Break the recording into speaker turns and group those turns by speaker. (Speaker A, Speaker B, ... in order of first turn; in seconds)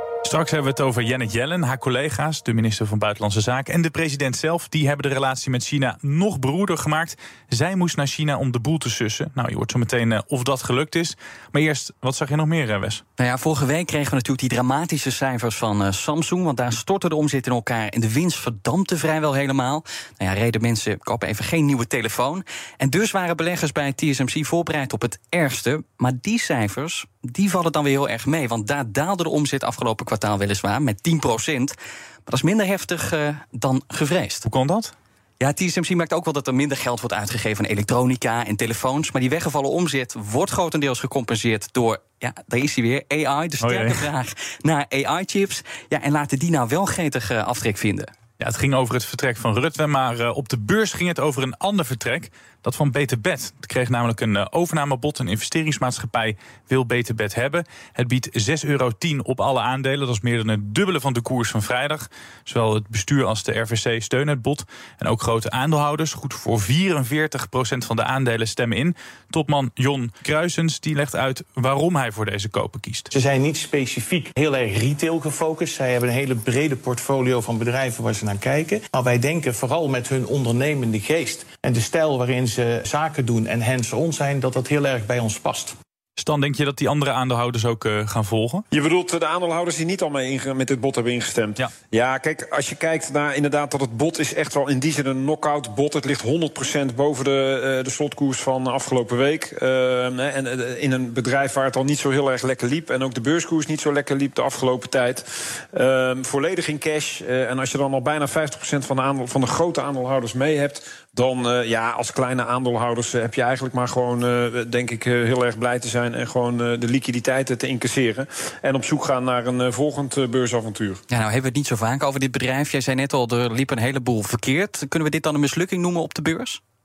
Speaker A: 0.2-13.0, 34.5-34.9, 43.6-44.0, 48.4-73.1, 86.2-88.6
Speaker B: 13.2-31.8, 32.3-34.5, 35.4-48.1, 121.1-126.6
Speaker C: 73.1-85.8
Speaker D: 88.7-121.0